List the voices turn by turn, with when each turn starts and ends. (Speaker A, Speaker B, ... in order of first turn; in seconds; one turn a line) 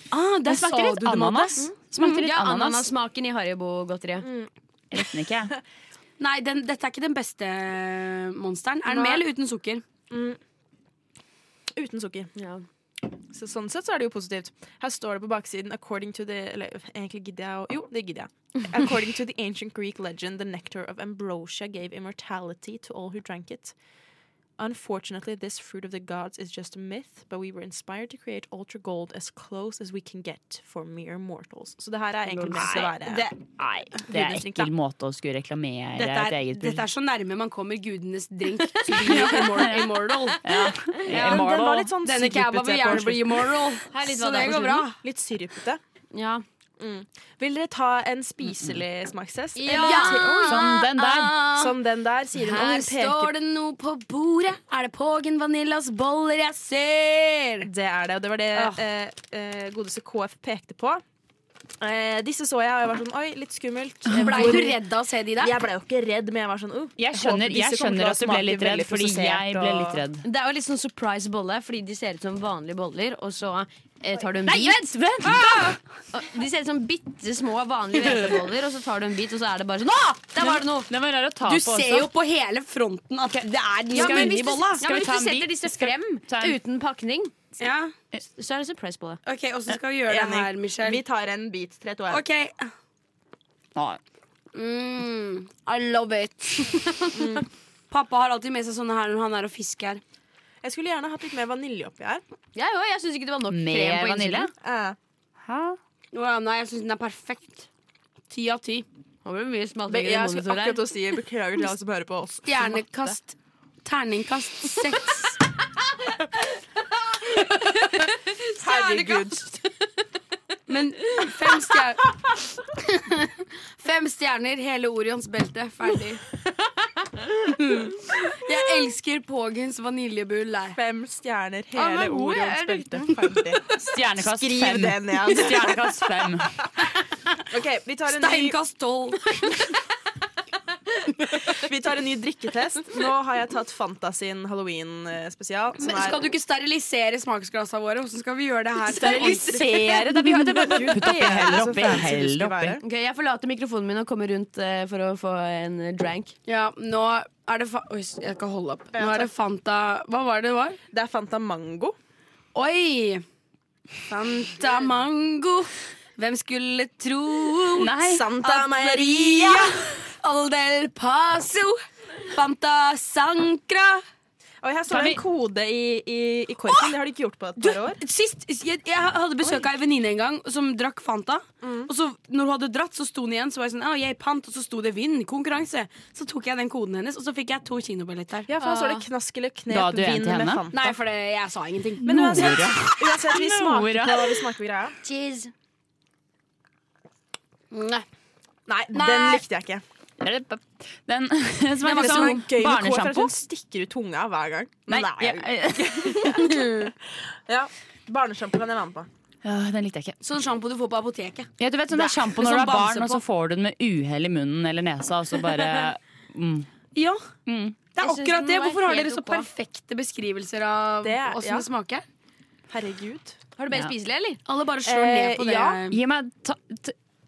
Speaker A: 0.1-2.2
Speaker B: 0.4-2.9
Speaker C: 2.0-4.3
Speaker D: 4.2-4.5
Speaker B: 4.9-5.5
Speaker A: 6.2-9.8
Speaker D: 8.9-9.2
Speaker D: 10.1-10.4
Speaker D: 11.7-12.3
Speaker C: 12.3-12.6
Speaker D: 13.3-23.7
Speaker D: 24.6-33.2
Speaker A: 32.4-33.3
Speaker B: 32.5-32.9
Speaker B: 33.5-36.9
Speaker D: 34.1-34.7
Speaker A: 36.0-40.4
Speaker B: 38.9-41.9
Speaker A: 41.1-41.5
Speaker D: 41.1-43.8
Speaker A: 42.0-45.0
Speaker C: 43.9-44.9
Speaker D: 44.5-45.8
Speaker C: 46.1-46.4
Speaker D: 46.8-50.7
Speaker C: 49.5-50.5
Speaker A: 49.6-51.8
Speaker B: 50.4-51.4
Speaker D: 51.5-53.3
Speaker A: 52.3-57.7
Speaker D: 57.6-61.0
Speaker A: 58.5-58.8
Speaker D: 61.8-64.8
Speaker B: 64.1-64.4
Speaker A: 64.1-65.6
Speaker D: 65.4-70.0
Speaker B: 67.0-70.2
Speaker C: 70.2-74.8
Speaker B: 74.4-75.5
Speaker A: 75.2-75.8
Speaker C: 76.1-80.9
Speaker B: 80.4-82.1
Speaker A: 81.4-84.8
Speaker B: 83.3-86.5
Speaker C: 83.9-87.4
Speaker A: 87.6-87.9
Speaker C: 88.2-89.2
Speaker A: 89.2-91.0
Speaker D: 90.1-92.2
Speaker A: 92.1-92.7
Speaker A: 94.5-96.8
Speaker D: 97.1-97.4
Speaker A: 97.9-100.0
Speaker D: 100.6-102.2
Speaker C: 102.5-104.5
Speaker B: 103.5-104.5
Speaker D: 104.6-105.0
Speaker B: 105.4-105.8
Speaker A: 106.1-107.7
Speaker A: 108.3-108.8
Speaker C: 109.2-110.8
Speaker D: 109.9-113.1
Speaker A: 112.5-115.4
Speaker C: 117.3-119.5
Speaker D: 118.6-119.5
Speaker A: 120.7-122.1
Speaker A: 122.8-126.2
Speaker A: 127.4-130.8
Speaker D: 130.7-136.3
Speaker C: 131.8-132.9
Speaker A: 133.1-133.7
Speaker B: 133.8-136.5
Speaker D: 137.5-138.6
Speaker A: 138.1-139.4
Speaker D: 141.4-146.3
Speaker A: 145.8-149.9
Speaker B: 148.9-152.8
Speaker D: 150.5-152.8
Speaker C: 152.8-156.3
Speaker A: 156.5-160.8
Speaker D: 158.9-159.3
Speaker D: 160.9-161.9
Speaker A: 162.5-163.2
Speaker A: 164.1-174.0
Speaker B: 167.7-168.2
Speaker D: 168.0-169.8
Speaker D: 174.6-178.0
Speaker B: 174.9-175.2
Speaker A: 177.6-188.9
Speaker D: 181.6-181.9
Speaker D: 188.5-190.9
Speaker B: 189.7-190.7
Speaker A: 190.7-192.7
Speaker B: 192.0-194.4
Speaker D: 192.0-194.9
Speaker A: 195.0-195.5
Speaker A: 197.7-198.0
Speaker D: 198.7-199.8
Speaker A: 198.9-199.4
Speaker B: 200.2-203.3
Speaker A: 201.8-202.5
Speaker D: 201.8-206.9
Speaker B: 204.9-206.6
Speaker D: 207.5-209.1
Speaker B: 209.4-210.2
Speaker A: 210.2-213.2
Speaker B: 211.6-216.7
Speaker A: 216.9-217.2
Speaker B: 217.4-217.8
Speaker A: 217.9-222.0
Speaker C: 218.0-219.5
Speaker D: 221.0-221.7
Speaker D: 222.7-223.4
Speaker C: 223.6-224.4
Speaker A: 224.4-226.0
Speaker D: 224.8-225.8
Speaker B: 225.9-226.9